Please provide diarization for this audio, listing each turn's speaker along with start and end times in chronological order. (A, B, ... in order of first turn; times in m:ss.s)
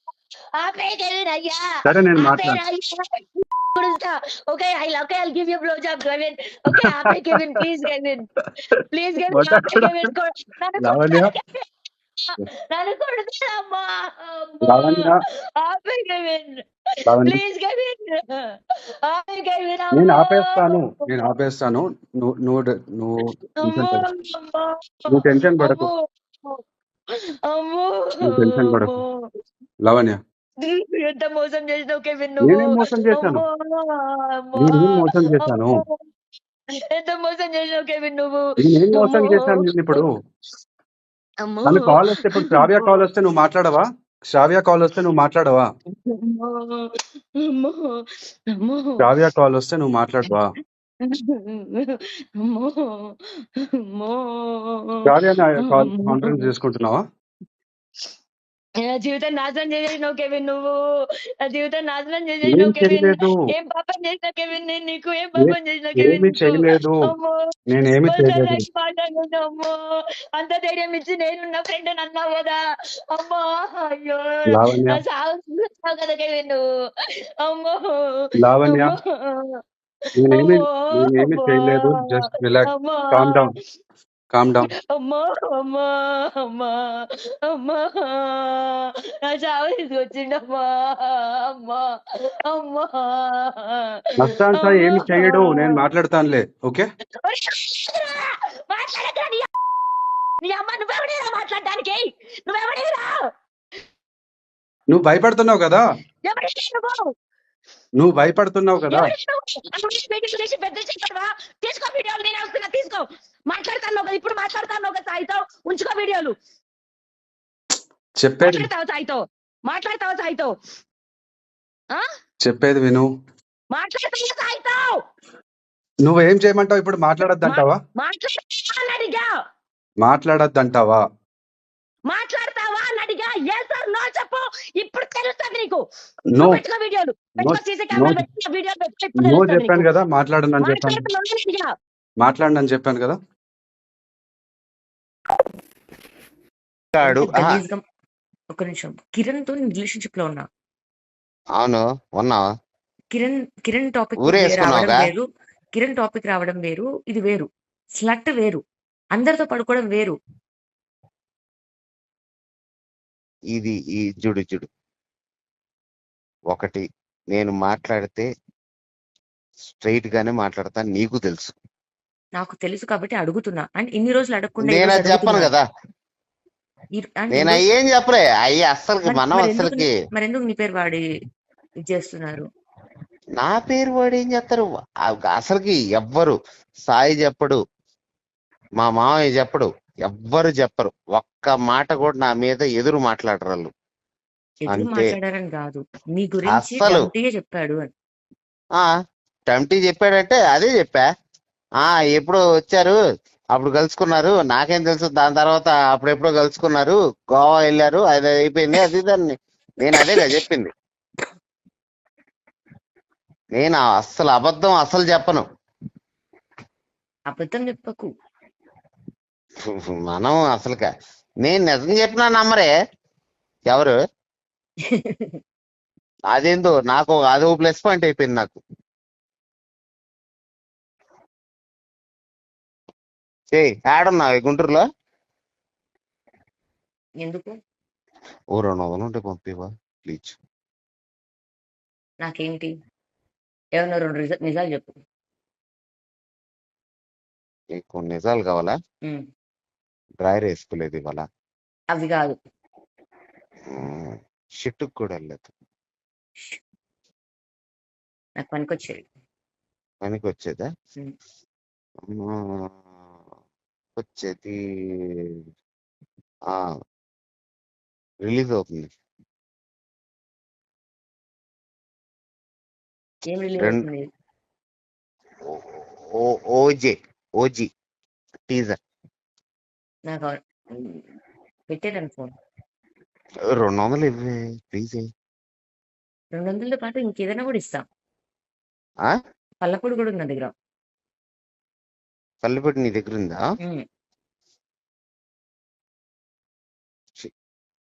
0:00.6-0:08.3 A
0:01.9-0:02.6 B
0:06.7-0:07.6 B
0:08.9-0:11.6 A
0:09.3-0:10.1 B
0:10.8-0:11.3 B
0:12.2-0:18.4 A
0:14.6-0:15.2 B
0:17.1-0:17.4 B
0:19.0-0:21.3 A
0:19.9-0:24.1 B
0:23.6-0:26.6 A
0:25.1-0:25.9 B
0:27.5-0:29.2 A
0:28.2-0:29.0 B
0:29.8-0:30.2 B
0:30.6-0:36.0 A
0:32.4-0:33.4 B
0:34.6-0:35.8 B
0:36.9-0:40.0 A
0:38.6-0:40.1 B
0:41.4-0:43.1 A
0:41.6-0:45.7 B
0:46.0-0:49.1 A
0:49.0-0:50.5 B
0:51.0-0:56.5 A
0:55.0-0:57.0 B
0:58.8-1:00.8 A
1:01.4-1:09.8 A
1:02.4-1:03.4 B
1:05.4-1:07.1 B
1:07.7-1:08.6 B
1:10.4-1:12.6 A
1:13.1-1:16.6 A
1:14.5-1:15.0 B
1:17.4-1:19.6 A
1:18.4-1:19.0 B
1:20.2-1:23.5 B
1:20.3-1:23.5 A
1:24.3-1:24.7 B
1:24.8-1:31.9 A
1:32.5-1:35.8 A
1:34.2-1:36.9 B
1:37.2-1:39.5 A
1:40.4-1:43.2 A
1:44.9-1:45.8 B
1:46.3-1:47.1 A
1:48.0-1:49.1 B
1:48.9-1:56.3 A
1:58.2-1:58.7 B
1:58.4-2:00.6 A
2:02.4-2:03.1 B
2:03.7-2:05.0 A
2:06.0-2:07.8 B
2:07.2-2:09.3 A
2:10.0-2:11.0 B
2:12.1-2:15.8 A
2:16.3-2:16.6 B
2:16.4-2:19.9 A
2:17.4-2:18.2 B
2:19.2-2:21.1 B
2:20.6-2:21.7 A
2:22.2-2:23.2 B
2:27.0-2:27.6 C
2:27.0-2:27.8 D
2:28.5-2:30.5 D
2:31.6-2:32.5 C
2:33.1-2:35.2 D
2:34.2-2:35.1 C
2:35.8-2:37.5 D
2:38.0-2:38.6 D
2:39.2-2:40.2 D
2:43.5-2:44.7 C
2:46.5-2:48.3 C
2:49.7-2:51.5 C
2:52.4-2:55.5 D
2:54.6-2:55.6 C
2:57.0-2:57.6 D
2:57.3-2:59.9 C
2:59.0-3:01.0 D
3:01.9-3:02.4 D
3:03.4-3:06.4 C
3:06.9-3:07.6 C
3:08.8-3:13.7 C
3:14.7-3:17.9 D
3:14.7-3:15.1 C
3:16.5-3:17.1 C
3:19.5-3:21.1 C
3:21.8-3:23.0 C
3:23.5-3:30.7 C
3:33.6-3:35.4 C
3:37.3-3:38.1 D
3:39.6-3:40.9 C
3:41.4-3:42.7 C
3:43.7-3:44.0 C
3:44.9-3:45.4 D
3:46.3-3:48.6 C
3:53.5-3:54.8 C
3:57.2-3:57.5 D
3:58.6-4:00.4 C
4:02.2-4:02.7 D
4:03.8-4:05.0 D
4:07.8-4:08.8 C
4:10.2-4:11.2 C
4:11.9-4:12.4 D
4:13.7-4:15.5 C
4:18.4-4:19.0 D
4:20.0-4:20.7 C
4:22.1-4:22.7 C
4:24.0-4:25.3 C
4:28.2-4:28.9 C
4:33.3-4:34.0 D
4:35.5-4:37.7 C
4:38.5-4:38.8 C
4:40.1-4:41.0 D
4:41.7-4:42.3 D
4:43.5-4:45.0 C
4:46.3-4:47.8 D
4:49.6-4:50.5 D
4:52.4-4:53.4 C